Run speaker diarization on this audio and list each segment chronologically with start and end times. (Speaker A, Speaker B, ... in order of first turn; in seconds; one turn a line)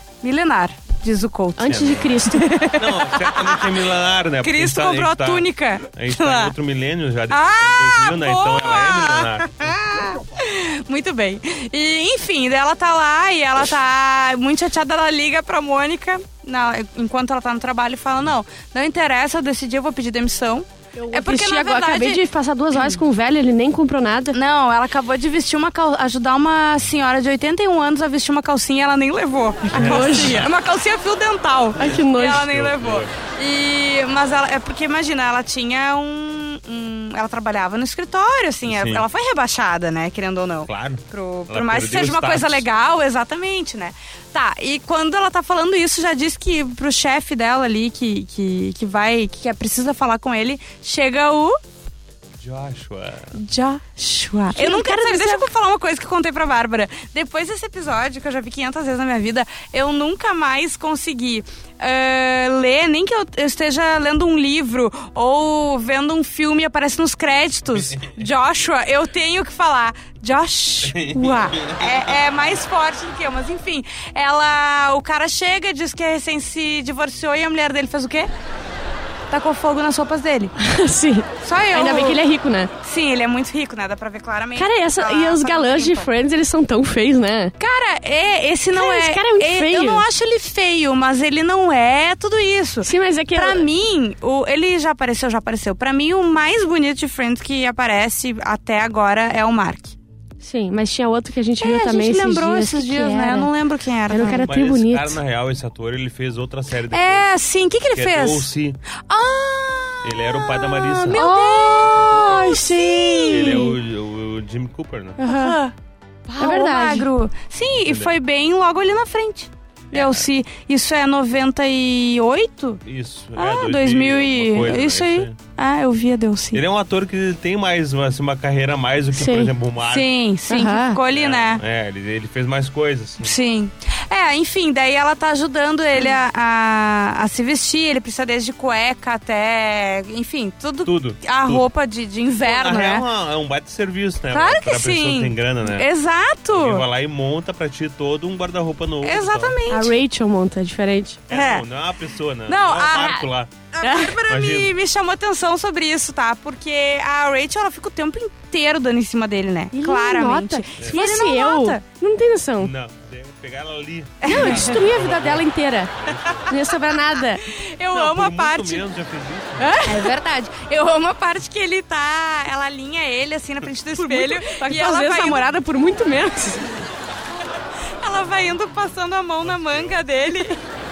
Speaker A: 0.2-3.8
Speaker B: 1.6-2.6
Speaker C: 1.7-2.1
Speaker C: 2.8-10.2
Speaker A: 4.4-6.5
Speaker A: 7.3-22.2
Speaker B: 21.0-24.4
Speaker A: 24.3-51.6
Speaker B: 29.7-30.4
Speaker C: 29.7-30.5
Speaker B: 31.8-32.5
Speaker C: 32.2-33.1
Speaker C: 38.7-39.0
Speaker C: 40.7-42.7
Speaker C: 52.4-53.4
Speaker A: 53.4-78.3
Speaker B: 54.5-55.5
Speaker C: 67.7-68.1
Speaker C: 70.8-72.2
Speaker A: 79.3-80.5
Speaker B: 80.6-82.7
Speaker A: 81.4-82.2
Speaker A: 82.8-86.1
Speaker B: 84.6-87.5
Speaker A: 87.6-100.0
Speaker B: 88.7-90.0
Speaker B: 92.8-93.7
Speaker B: 100.4-103.5
Speaker A: 101.6-104.5
Speaker B: 104.1-105.2
Speaker C: 104.2-107.3
Speaker A: 106.9-108.5
Speaker C: 107.9-108.8
Speaker A: 109.1-113.7
Speaker C: 110.0-111.2
Speaker B: 111.1-113.8
Speaker C: 113.3-115.2
Speaker B: 115.2-115.6
Speaker A: 115.2-115.7
Speaker A: 116.3-122.8
Speaker B: 116.3-117.1
Speaker C: 117.8-118.1
Speaker C: 119.9-120.3
Speaker C: 122.8-125.4
Speaker A: 123.4-126.6
Speaker C: 126.5-130.1
Speaker B: 129.2-129.5
Speaker A: 129.8-131.6
Speaker B: 130.5-131.0
Speaker C: 131.1-133.3
Speaker A: 133.2-143.1
Speaker C: 140.8-141.7
Speaker C: 142.4-145.9
Speaker A: 144.3-146.8
Speaker C: 146.5-149.6
Speaker A: 149.0-149.9
Speaker B: 149.7-151.2
Speaker C: 151.3-153.5
Speaker A: 151.3-151.6
Speaker A: 152.5-161.8
Speaker B: 152.9-153.2
Speaker B: 153.8-154.2
Speaker C: 154.3-154.7
Speaker B: 159.7-162.7
Speaker C: 162.6-166.6
Speaker A: 164.2-164.8
Speaker B: 164.2-165.9
Speaker B: 166.5-167.5
Speaker A: 167.4-168.8
Speaker C: 167.9-169.7
Speaker B: 169.6-170.2
Speaker A: 169.8-175.5
Speaker B: 174.0-176.7
Speaker A: 178.0-180.6
Speaker C: 179.5-179.9